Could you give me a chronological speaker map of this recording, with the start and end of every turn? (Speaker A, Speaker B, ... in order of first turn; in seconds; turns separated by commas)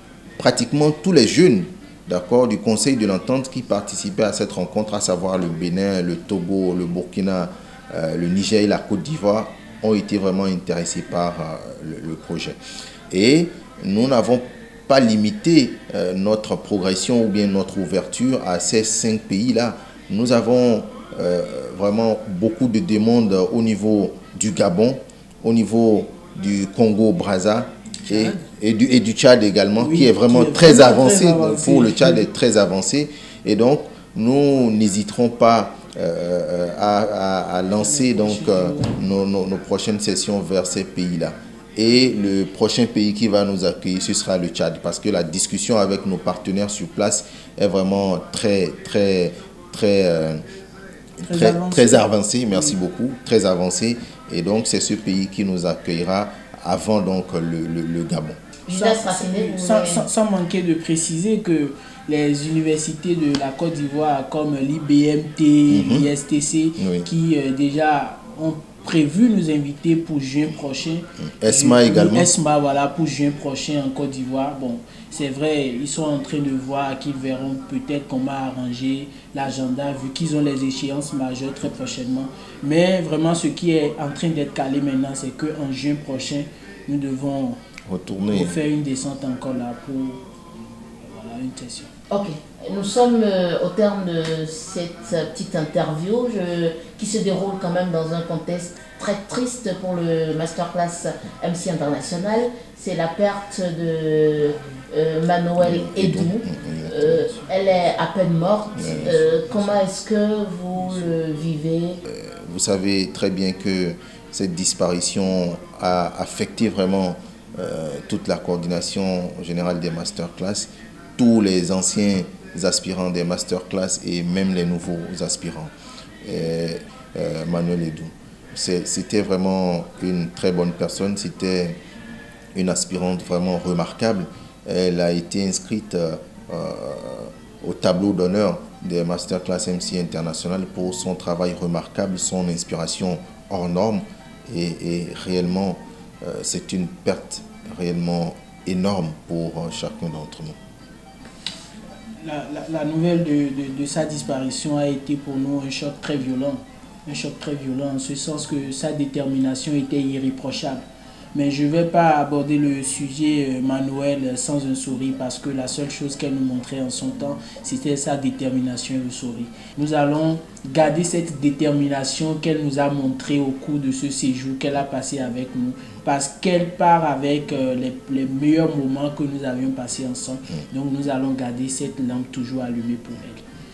Speaker A: 0.4-12.6, Speaker A: 13.1-50.4, Speaker B: 28.1-28.4, Speaker B: 29.8-32.3, Speaker B: 37.8-39.0, Speaker A: 51.2-58.4, Speaker B: 51.2-52.8, Speaker C: 58.7-60.0, Speaker B: 58.7-87.6, Speaker A: 65.7-66.1, Speaker A: 66.8-67.1, Speaker A: 71.2-72.3, Speaker A: 87.9-88.6, Speaker B: 88.2-90.2, Speaker B: 91.0-91.9, Speaker C: 92.1-112.0, Speaker A: 105.6-107.3, Speaker A: 108.7-109.2, Speaker B: 108.8-109.8, Speaker B: 110.8-111.1, Speaker A: 112.0-125.7, Speaker A: 126.2-131.8, Speaker A: 132.5-150.6, Speaker B: 152.2-160.8, Speaker B: 161.3-183.4